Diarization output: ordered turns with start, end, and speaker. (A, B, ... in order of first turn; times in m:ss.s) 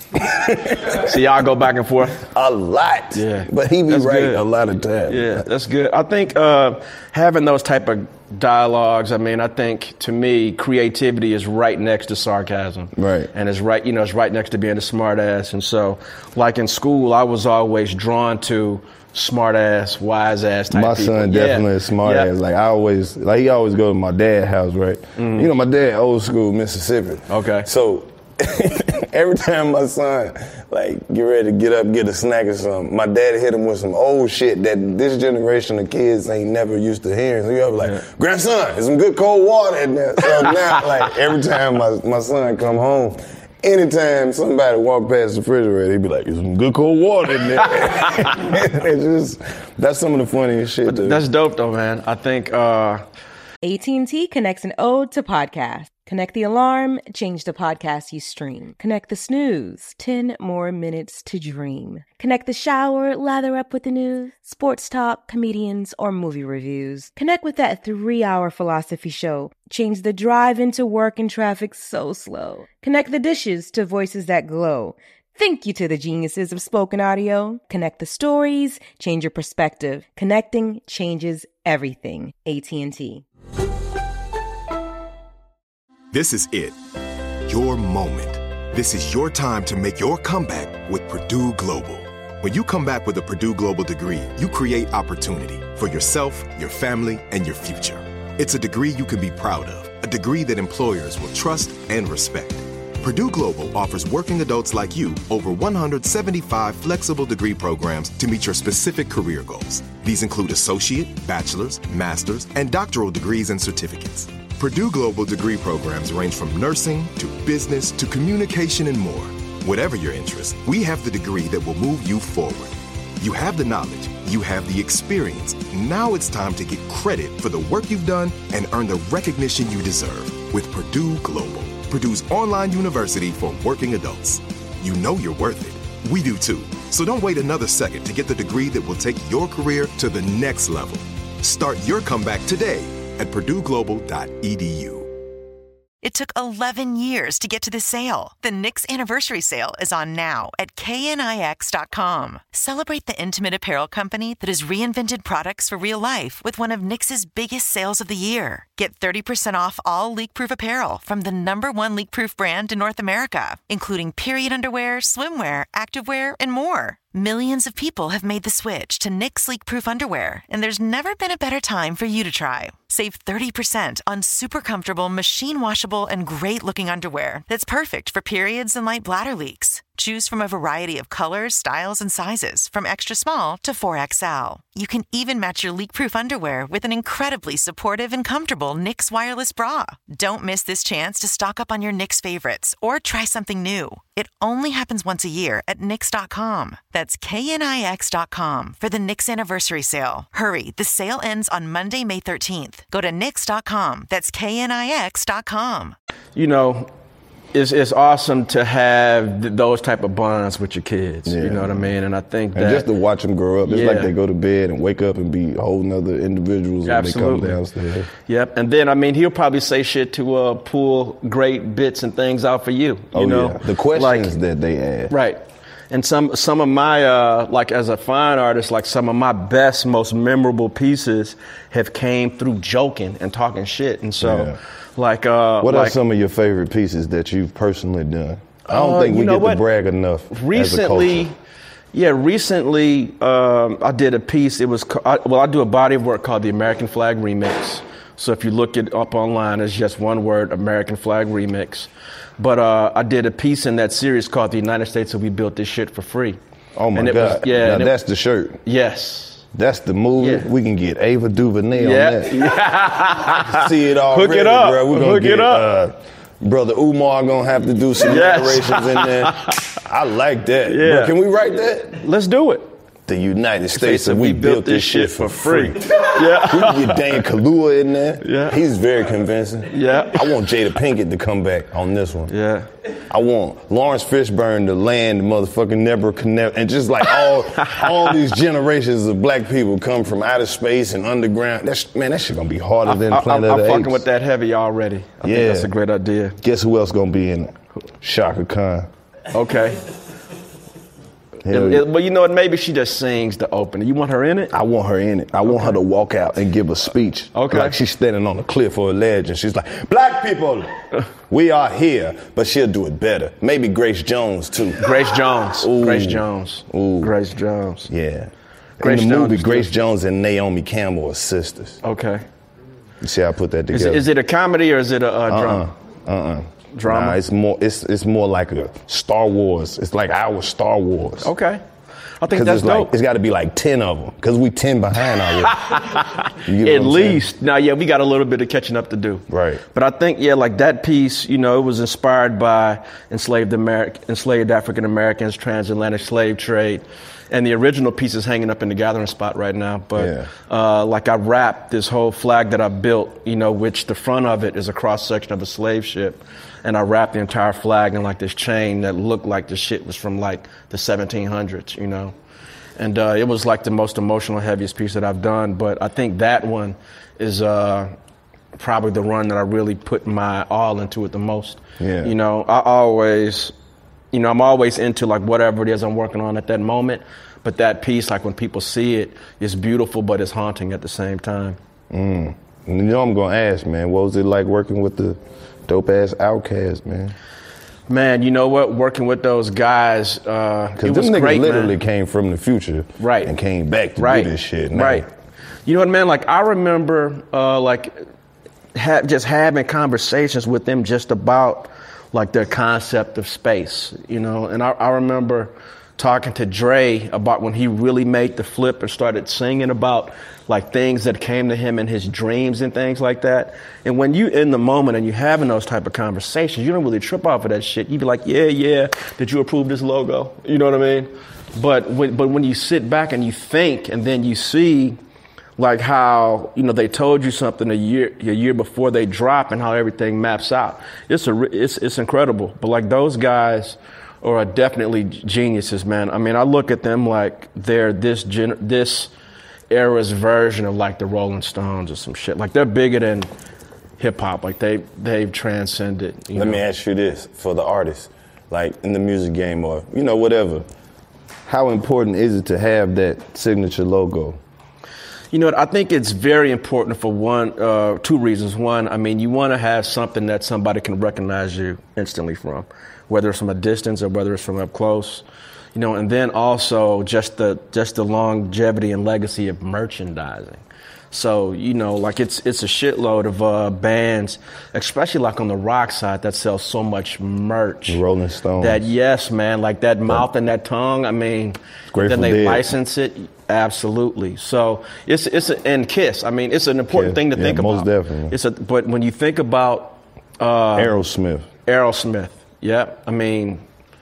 0:00.1-0:01.1 A
0:00.9-0:02.2 B
0:02.3-0:05.4 A
0:03.1-0:04.4 B
0:05.1-0:22.3 B
0:13.0-0:13.3 A
0:20.7-0:51.2 A
0:25.2-0:25.5 B
0:27.3-0:27.7 B
0:40.3-0:40.8 B
0:47.6-0:48.3 B
0:50.8-0:53.0 B
0:53.6-1:23.2 C
1:26.1-1:26.8 D
1:27.4-2:25.1 D
2:26.0-3:26.0 E
3:26.3-3:26.9 B
3:27.5-3:32.9 B
3:31.2-3:31.9 A
3:32.5-3:38.1 A
3:33.6-3:34.1 B
3:36.8-3:37.6 B
3:38.3-3:44.4 B
3:43.1-3:45.1 A
3:45.1-3:56.0 B
3:54.2-3:54.6 A
3:55.6-4:01.3 A
3:58.7-3:59.6 B
4:00.3-4:01.3 B
4:01.9-4:16.4 B
4:16.7-4:18.6 A
4:16.9-4:17.9 B
4:18.6-4:19.4 B
4:19.5-4:22.5 A
4:20.2-4:20.5 B
4:21.8-4:25.7 B
4:23.3-4:32.0 A
4:28.0-4:29.8 B
4:30.7-4:31.2 B
4:31.9-4:32.7 B
4:33.1-4:42.3 A
4:33.7-4:37.2 B
4:38.2-4:38.6 B
4:39.7-4:40.4 B
4:42.3-4:42.7 B
4:43.1-4:54.0 A
4:47.6-4:48.1 B
4:52.8-4:56.4 B
4:55.2-4:55.7 A
4:56.4-4:58.9 A
4:59.3-4:59.8 B
5:01.4-5:01.8 A
5:01.5-5:04.5 B
5:04.5-5:10.7 A
5:05.4-5:05.8 B
5:07.3-5:07.7 B
5:11.3-5:15.0 A
5:14.8-5:17.9 B
5:15.6-5:17.1 A
5:17.9-5:21.8 A
5:18.8-5:19.8 B
5:21.8-5:22.2 B
5:23.0-5:24.0 A
5:23.7-5:25.7 B
5:25.3-5:31.3 A
5:26.7-5:27.2 B
5:31.2-5:31.6 B
5:32.2-5:32.9 B
5:32.3-5:35.6 A
5:35.4-6:02.1 B
5:36.4-5:37.2 A
5:39.3-5:39.6 A
5:50.0-5:50.3 A
6:02.8-6:07.9 B
6:08.5-6:13.5 B
6:11.8-6:12.1 A
6:14.1-6:21.6 B
6:21.9-6:27.1 A
6:27.9-6:31.7 B
6:30.8-6:35.1 A
6:33.0-6:33.3 B
6:34.0-6:35.0 B
6:35.6-6:38.0 B
6:38.7-7:05.0 B
7:05.6-7:19.1 B
7:19.7-7:23.3 B
7:24.0-7:26.6 B
7:26.3-7:30.6 A
7:31.5-7:34.4 A
7:35.3-7:45.2 B
7:45.7-7:58.0 B
7:57.9-7:58.9 A
7:58.6-8:10.9 B
8:01.9-8:02.7 A
8:06.9-8:08.4 A
8:10.7-8:11.5 A
8:11.6-8:13.6 B